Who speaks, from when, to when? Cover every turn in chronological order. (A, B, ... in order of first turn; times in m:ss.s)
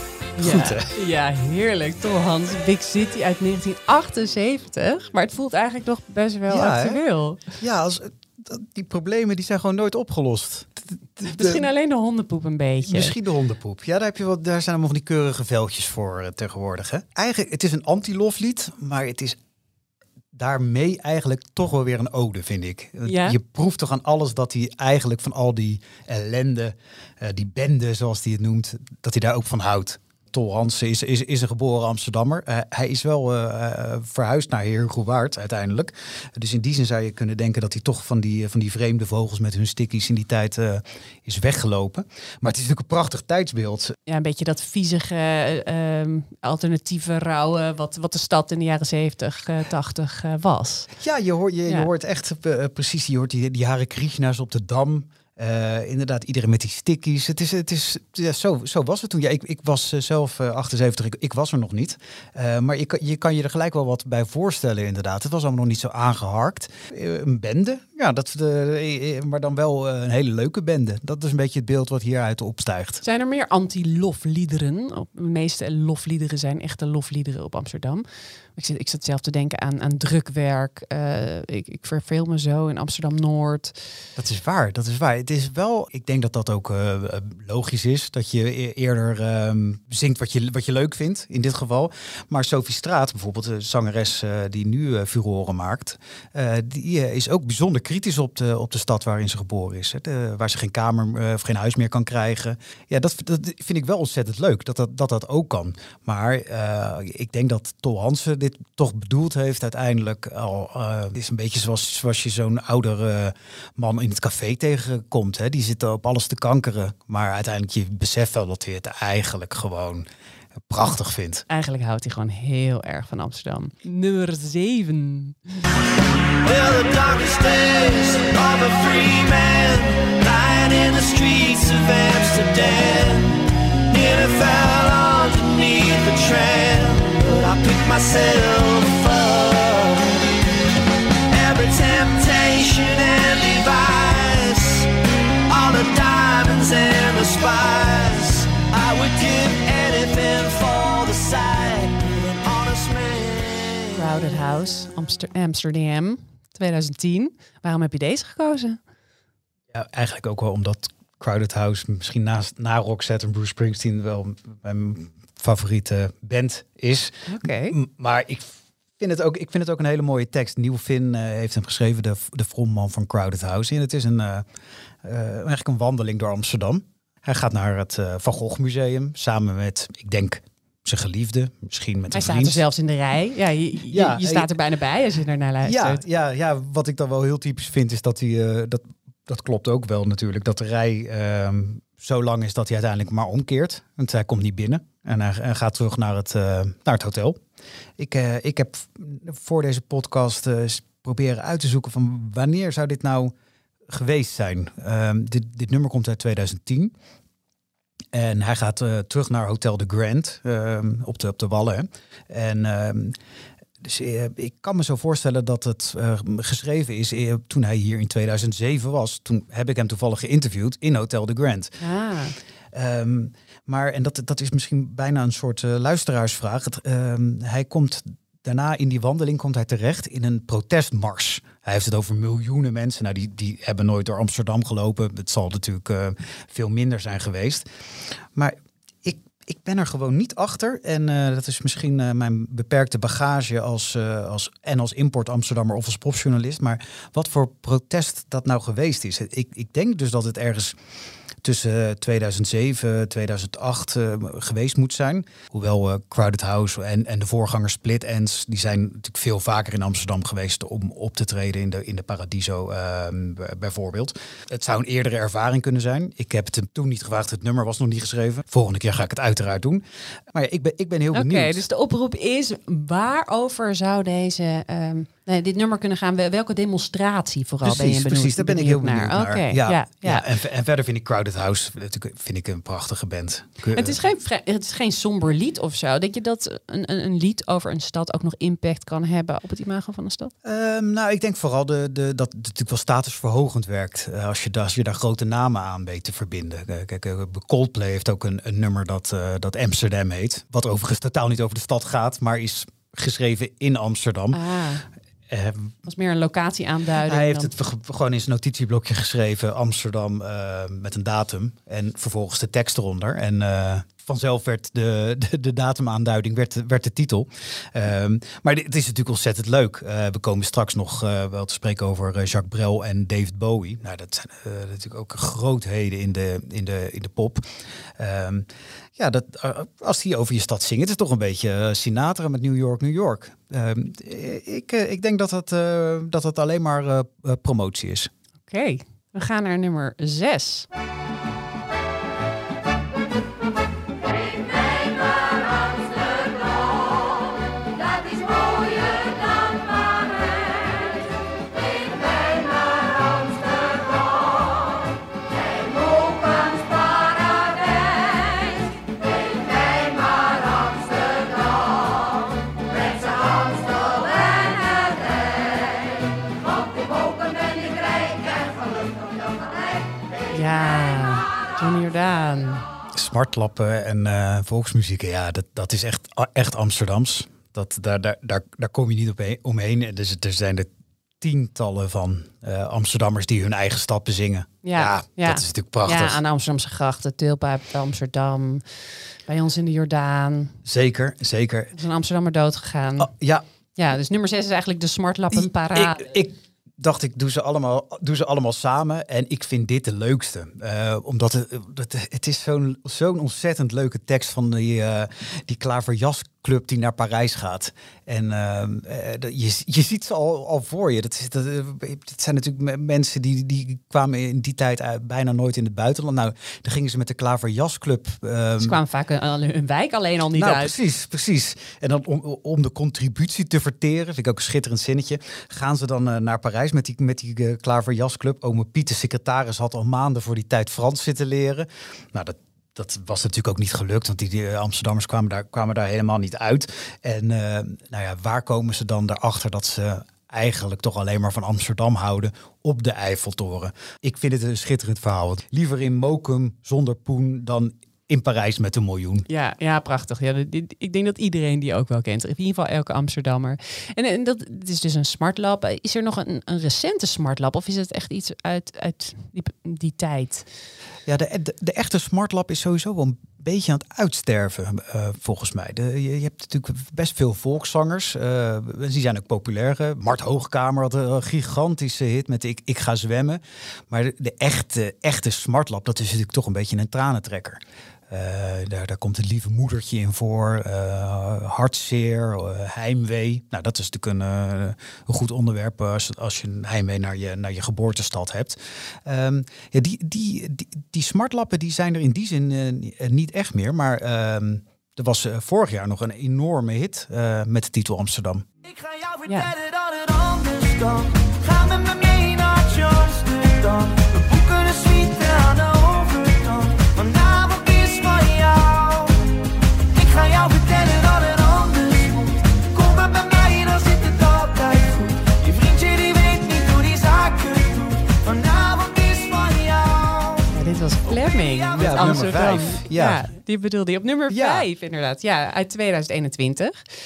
0:00.4-0:07.4 A
0:00.4-0:00.9 B
0:06.5-0:07.0 B
0:07.5-0:11.7 B
0:11.3-0:13.1 A
0:12.8-0:19.4 B
0:20.3-0:44.0 B
0:23.0-0:23.4 A
0:44.1-0:50.9 A
0:51.0-1:13.0 B
1:13.0-1:18.0 A
1:18.5-1:23.8 A
1:24.2-2:00.0 B
2:00.7-2:01.4 B
2:01.5-2:05.4 A
2:06.4-2:20.2 C
2:21.3-2:24.9 C
2:25.5-2:34.0 C
2:33.9-2:38.8 A
2:39.7-2:48.5 B
2:47.3-2:47.8 A
2:49.0-2:54.4 B
2:55.0-3:02.6 B
3:02.1-3:06.0 A
3:03.9-3:04.5 B
3:05.6-3:17.4 B
3:18.0-3:23.3 B
3:23.9-3:26.9 B
3:28.1-3:33.2 B
3:33.8-3:41.7 B
3:41.8-3:42.4 A
3:42.7-3:57.6 B
3:58.3-4:10.8 B
4:11.4-4:31.6 B
4:31.1-4:40.3 A
4:37.6-4:44.0 B
4:43.7-4:50.3 A
4:50.4-5:04.4 B
5:04.3-5:04.8 A
5:05.3-5:05.7 B
5:05.8-5:07.5 A
5:07.0-5:27.5 B
5:28.0-5:38.1 B
5:38.5-5:40.7 A
6:10.3-6:12.6 A
6:12.9-6:20.7 B
6:21.2-6:26.2 B
6:24.6-6:30.6 A
6:30.6-6:31.7 B
6:31.7-6:33.1 A
6:33.0-6:33.4 B
6:33.8-6:36.1 A
6:35.3-6:58.8 B
6:58.6-7:00.7 A
7:00.3-7:29.2 B
7:29.3-7:40.5 A
7:41.0-8:18.4 B
8:18.6-8:29.2 C
8:29.9-8:40.5 C
8:40.5-8:46.8 A
8:41.0-8:42.4 C
8:41.7-8:43.3 B
8:44.3-8:44.6 B